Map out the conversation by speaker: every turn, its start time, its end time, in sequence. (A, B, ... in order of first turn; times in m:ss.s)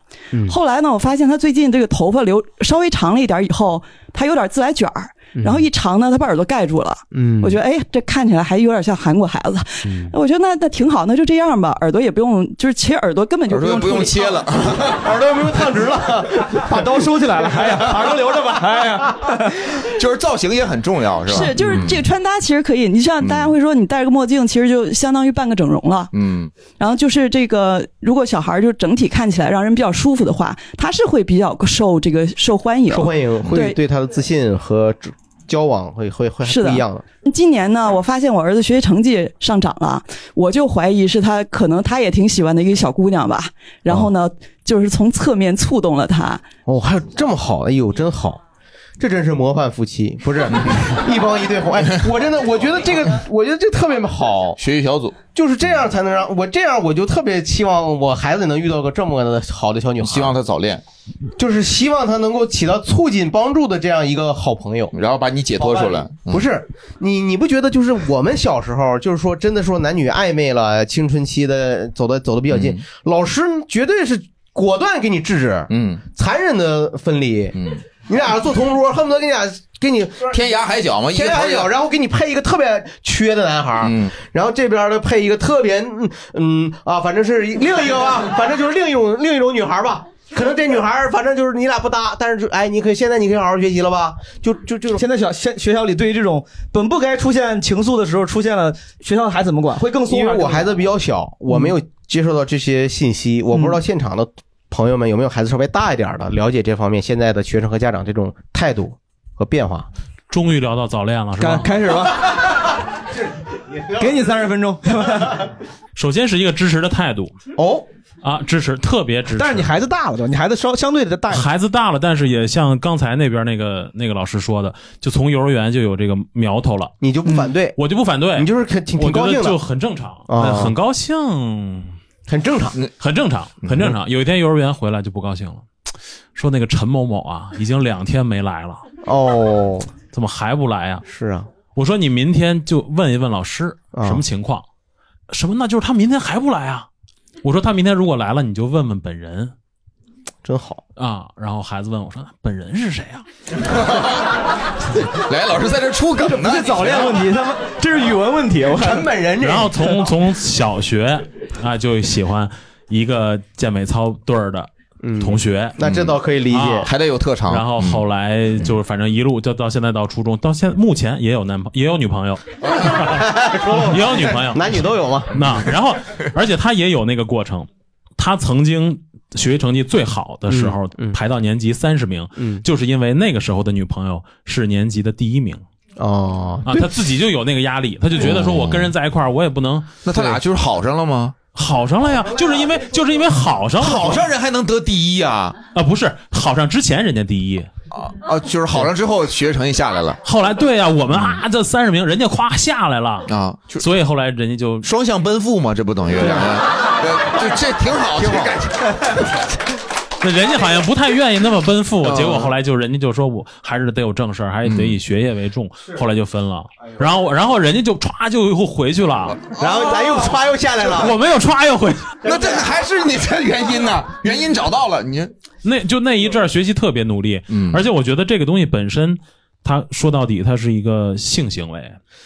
0:00.4-0:14.4 A
0:05.4-0:05.7 B
0:07.1-0:07.6 B
0:13.5-0:15.1 C
0:14.9-0:16.9 B
0:16.6-0:19.7 D
0:19.8-0:22.1 C
0:21.2-0:26.1 A
0:23.2-0:23.6 C
0:26.1-0:26.5 C
0:26.7-0:33.8 A
0:32.9-0:37.0 B
0:36.4-0:46.4 A
0:46.6-0:48.4 B
0:49.0-0:54.6 B
0:54.6-0:55.2 C
0:55.3-1:00.4 B
1:00.0-1:00.8 C
1:01.4-1:04.9 B
1:04.9-1:06.4 C
1:05.6-1:20.4 B
1:12.5-1:12.8 C
1:15.7-1:16.0 C
1:20.3-1:21.7 C
1:21.1-1:35.0 B
1:23.8-1:24.1 C
1:34.9-1:40.7 D
1:40.1-1:49.9 B
1:50.3-1:51.7 E
1:51.4-1:52.4 D
1:53.7-1:54.1 B
1:54.0-1:55.4 D
1:56.0-1:57.3 E
1:57.6-1:57.8 B
1:58.2-1:59.7 E
1:59.3-2:01.5 D
2:01.3-2:06.9 E
2:07.0-2:07.8 B
2:07.8-2:11.9 E
2:08.3-2:09.6 B
2:10.3-2:10.7 B
2:12.3-2:12.8 B
2:13.0-2:15.6 E
2:16.3-2:18.9 E
2:19.0-2:19.9 B
2:20.1-2:21.0 E
2:21.0-2:21.5 B
2:21.7-2:24.6 E
2:23.9-2:24.2 B
2:25.3-2:26.9 E
2:27.4-2:29.5 E
2:30.4-2:30.8 B
2:31.0-2:33.2 E
2:33.7-2:34.2 C
2:34.9-2:37.2 C
2:36.2-2:39.0 D
2:38.8-2:40.0 B
2:39.4-2:45.8 E
2:45.0-2:46.9 B
2:45.8-2:46.2 C
2:46.5-2:46.9 E
2:46.8-2:48.0 C
2:47.4-3:05.6 E
2:52.8-2:55.4 B
3:00.5-3:01.2 B
3:02.4-3:02.6 B
3:06.0-3:07.0 B
3:06.6-3:10.0 E
3:08.2-3:08.9 C
3:10.0-3:11.4 C
3:10.1-3:10.4 B
3:11.5-3:14.3 E
3:13.8-3:15.6 C
3:15.7-3:17.7 E
3:17.9-3:20.2 C
3:20.2-3:24.9 E
3:21.1-3:21.4 C
3:23.3-3:23.9 C
3:24.8-3:28.7 C
3:28.2-3:28.6 B
3:30.2-3:39.4 E
3:32.0-3:32.5 C
3:34.6-3:35.0 C
3:39.5-3:40.1 C
3:39.5-3:41.2 B
3:40.9-3:42.2 E
3:42.2-3:45.3 C
3:45.6-3:52.0 E
3:47.5-3:47.8 C